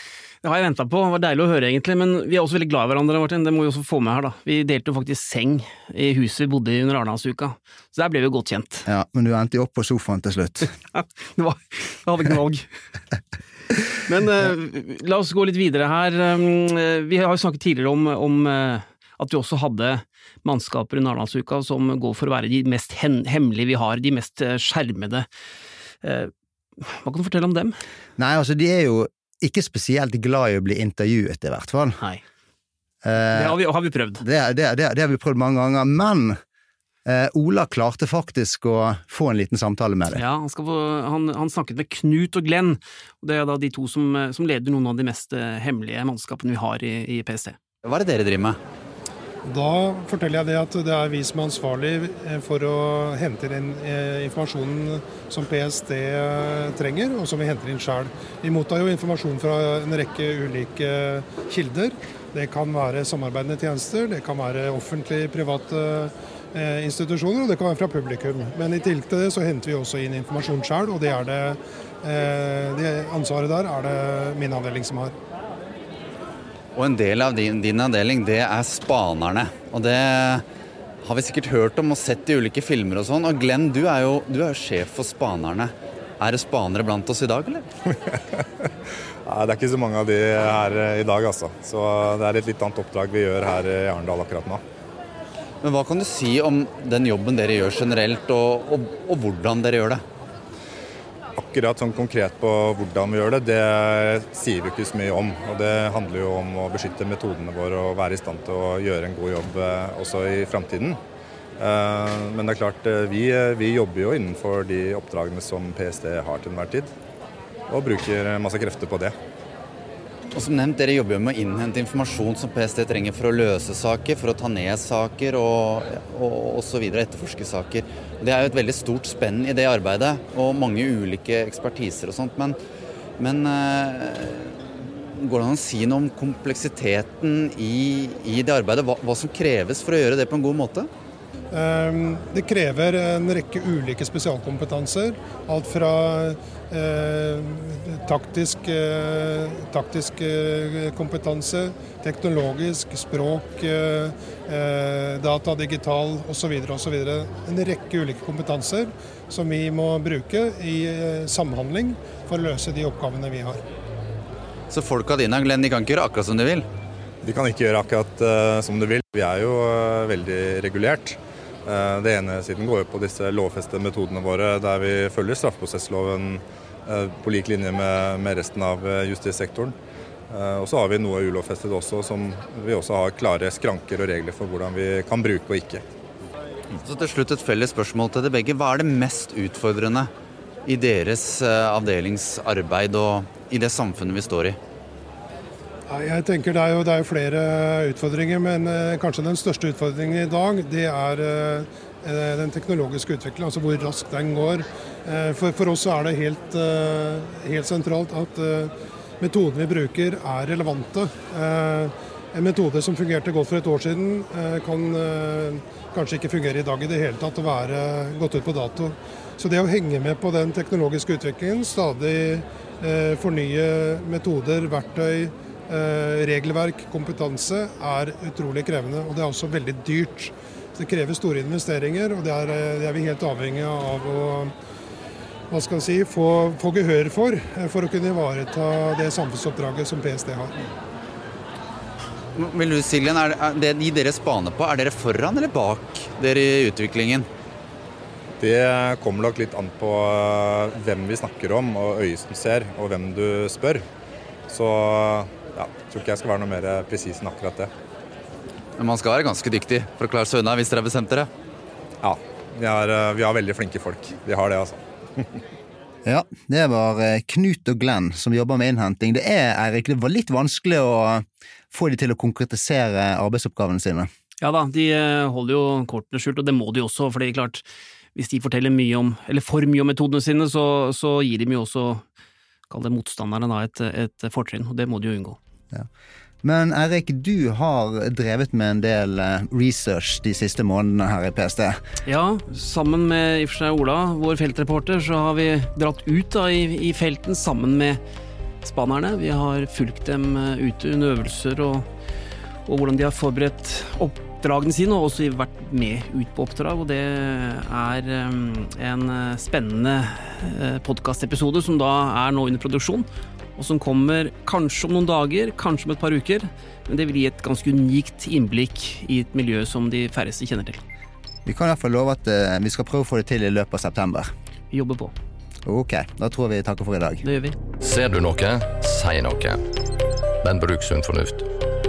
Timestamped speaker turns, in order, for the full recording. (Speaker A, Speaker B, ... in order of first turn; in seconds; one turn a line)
Speaker A: 0.4-8.9
Speaker B: 8.9-10.7
Speaker A: 10.9-12.7
Speaker A: 14.1-25.3
Speaker A: 26.0-27.8
Speaker B: 28.2-32.0
Speaker B: 33.0-33.6
Speaker A: 33.3-34.2
Speaker B: 34.2-36.4
Speaker B: 37.1-40.2
Speaker A: 40.1-47.6
Speaker C: 47.8-48.6
Speaker D: 49.5-75.2
Speaker C: 76.8-80.5
Speaker C: 81.0-87.7
Speaker E: 87.9-88.5
Speaker E: 89.3-94.6
Speaker C: 95.6-100.0
Speaker E: 101.4-111.0
Speaker E: 111.6-116.9
Speaker E: 117.7-119.1
Speaker C: 120.3-132.6
Speaker C: 133.2-140.9
Speaker D: 141.5-163.6
Speaker C: 164.7-166.7
Speaker E: 167.2-179.8
Speaker E: 180.3-185.8
Speaker C: 186.8-190.1
Speaker C: 190.7-194.6
Speaker D: 195.9-234.5
Speaker D: 235.5-240.6
Speaker C: 242.3-247.3
Speaker E: 248.4-253.8
Speaker E: 254.5-257.7
Speaker C: 258.8-261.3
Speaker E: 262.0-265.3
Speaker B: 266.1-274.1
Speaker A: 274.4-277.6
Speaker A: 278.1-282.0
Speaker A: 282.7-285.4
Speaker B: 286.4-291.8
Speaker A: 292.1-298.0
Speaker A: 298.6-301.9
Speaker A: 302.7-320.8
Speaker B: 321.4-324.3
Speaker A: 324.7-325.1
Speaker B: 325.6-327.2
Speaker A: 327.2-327.6
Speaker F: 327.8-329.7
Speaker F: 330.4-331.5